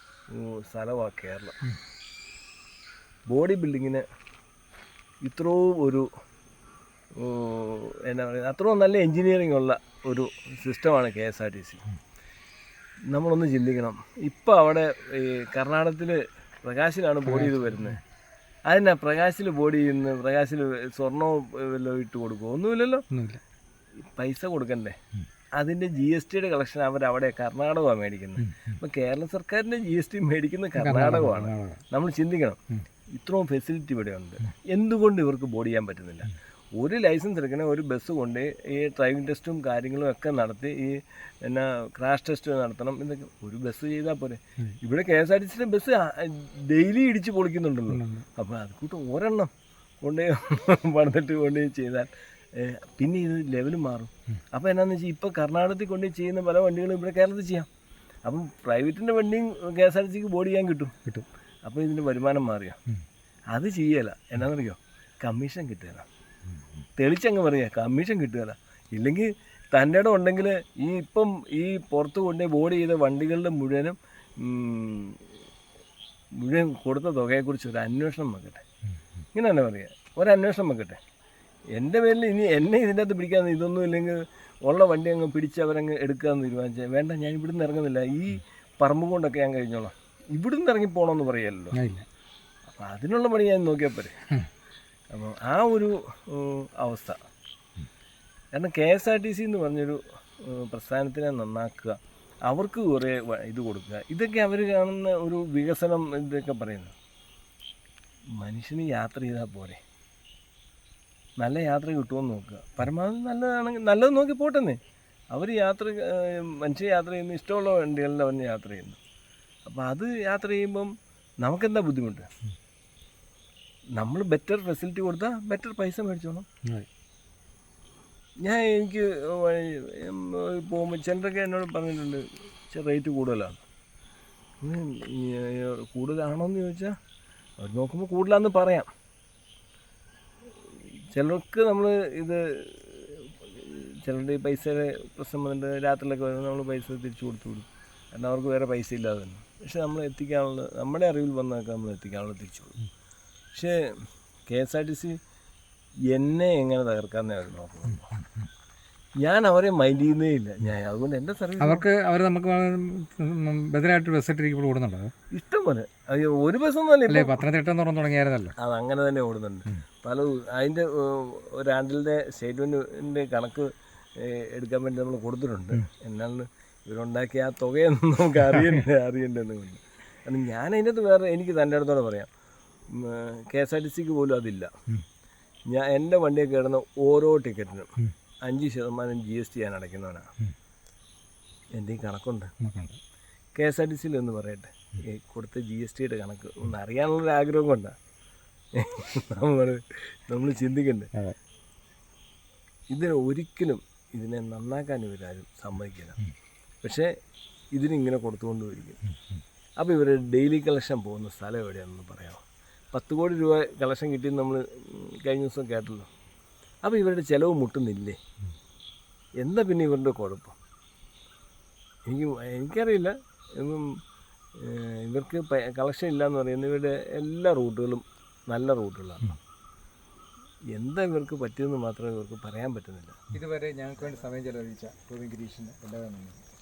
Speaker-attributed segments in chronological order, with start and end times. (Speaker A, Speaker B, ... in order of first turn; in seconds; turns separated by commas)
Speaker A: 0.3-1.6, Speaker A: 3.3-4.0, Speaker A: 5.2-6.1, Speaker A: 7.2-11.8, Speaker A: 13.1-18.0, Speaker B: 17.3-18.0, Speaker A: 18.7-23.1, Speaker B: 23.1-23.4, Speaker A: 24.0-25.0, Speaker A: 25.6-32.6, Speaker B: 28.4-28.8, Speaker B: 30.8-31.8, Speaker A: 33.1-49.5, Speaker B: 47.9-48.2, Speaker A: 50.0-57.7, Speaker A: 58.2-61.0, Speaker A: 61.6-62.8, Speaker A: 63.5-66.1, Speaker A: 67.0-75.3, Speaker A: 76.4-78.7, Speaker A: 79.3-81.0, Speaker A: 81.8-91.8, Speaker B: 91.7-92.1, Speaker A: 92.7-94.2, Speaker A: 95.1-97.2, Speaker A: 98.5-107.0, Speaker A: 108.4-109.8, Speaker A: 111.4-114.8, Speaker A: 115.3-119.0, Speaker A: 119.7-120.9, Speaker A: 121.4-122.3, Speaker A: 124.0-126.5, Speaker A: 128.4-133.6, Speaker A: 134.6-137.0, Speaker A: 137.6-138.9, Speaker A: 141.1-152.8, Speaker A: 154.5-155.2, Speaker A: 156.1-158.1, Speaker A: 159.2-161.8, Speaker B: 161.6-165.1, Speaker A: 165.3-167.4, Speaker B: 167.1-168.5, Speaker A: 168.6-182.3, Speaker A: 182.9-184.7, Speaker A: 185.7-187.9, Speaker A: 188.4-190.3, Speaker A: 191.8-192.5, Speaker B: 192.6-193.0, Speaker A: 193.6-197.9, Speaker A: 198.8-201.1, Speaker A: 202.9-206.2, Speaker A: 206.8-207.1, Speaker A: 207.8-209.0, Speaker A: 209.8-216.1, Speaker A: 216.8-218.2, Speaker A: 219.4-220.6, Speaker A: 222.1-224.0, Speaker A: 224.6-229.4, Speaker A: 230.7-233.2, Speaker B: 233.3-236.4